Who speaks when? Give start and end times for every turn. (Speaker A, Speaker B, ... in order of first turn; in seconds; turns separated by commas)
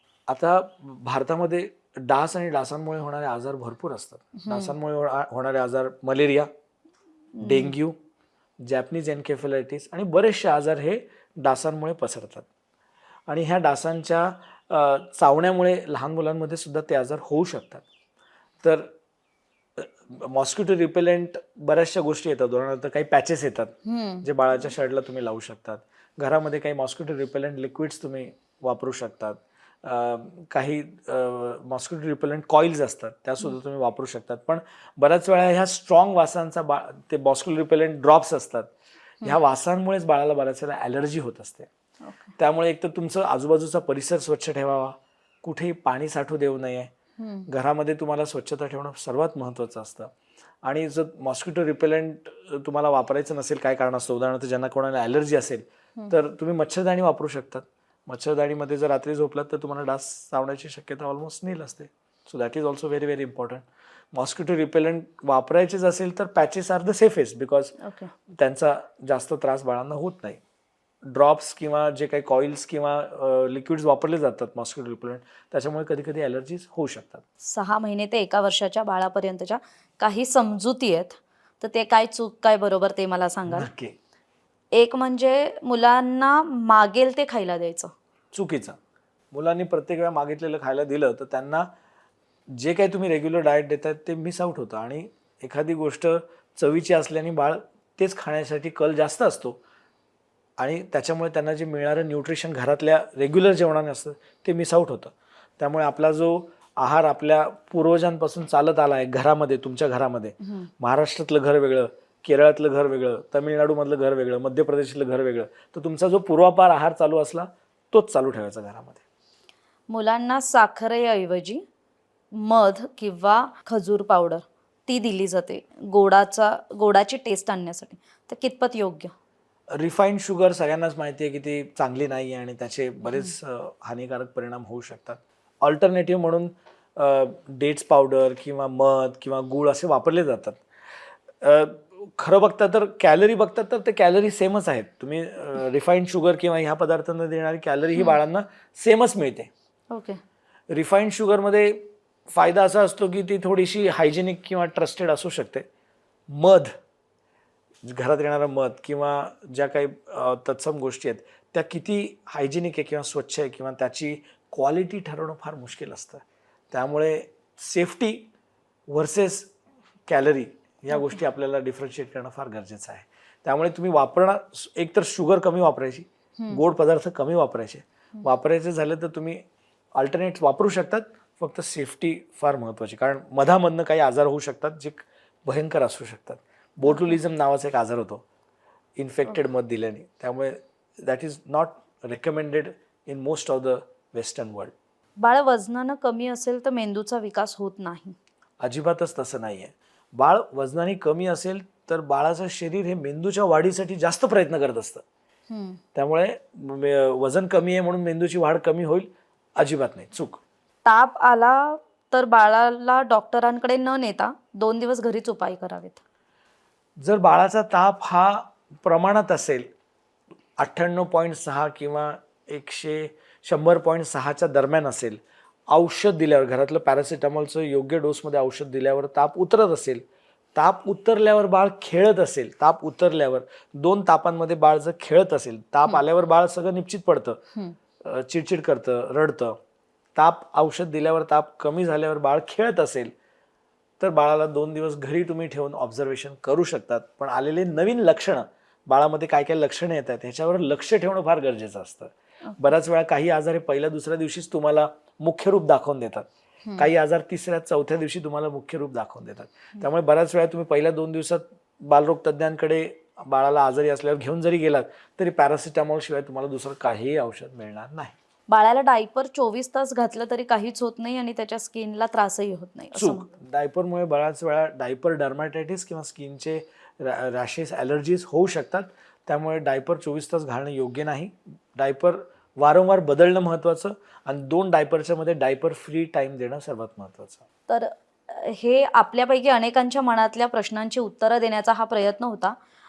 Speaker A: 0.3-6.5, Speaker B: 4.3-4.7, Speaker B: 7.4-7.7, Speaker A: 7.4-8.0, Speaker A: 8.6-12.5, Speaker A: 13.3-17.8, Speaker A: 18.6-18.9, Speaker A: 19.8-38.7, Speaker B: 23.9-24.2, Speaker A: 39.2-41.7, Speaker B: 42.0-42.3, Speaker A: 42.4-46.9, Speaker B: 47.2-47.5, Speaker A: 47.5-50.1, Speaker A: 50.6-67.7, Speaker B: 67.8-68.1, Speaker A: 68.3-70.4, Speaker A: 71.0-77.2, Speaker B: 77.4-83.7, Speaker A: 83.5-84.0, Speaker B: 84.7-87.9, Speaker A: 88.3-88.8, Speaker A: 89.3-91.7, Speaker A: 92.5-99.6, Speaker A: 100.6-119.0, Speaker B: 119.9-121.6, Speaker B: 122.3-129.1, Speaker A: 129.7-140.6, Speaker B: 133.1-133.3, Speaker A: 141.4-149.5, Speaker B: 149.9-150.2, Speaker A: 150.7-155.7, Speaker A: 156.3-156.7, Speaker A: 157.8-168.3, Speaker A: 168.9-169.5, Speaker A: 170.1-179.4, Speaker B: 170.9-171.2, Speaker A: 179.9-188.2, Speaker B: 186.9-187.2, Speaker A: 189.0-194.7, Speaker B: 195.2-198.2, Speaker A: 198.6-205.0, Speaker B: 205.5-205.8, Speaker A: 205.9-210.4, Speaker B: 210.8-216.0, Speaker A: 217.0-219.7, Speaker A: 220.6-225.2, Speaker A: 225.7-237.4, Speaker A: 238.0-239.6, Speaker A: 240.1-243.1, Speaker A: 244.0-268.1, Speaker B: 252.5-252.7, Speaker B: 268.5-273.3, Speaker A: 272.9-287.4, Speaker B: 287.7-292.5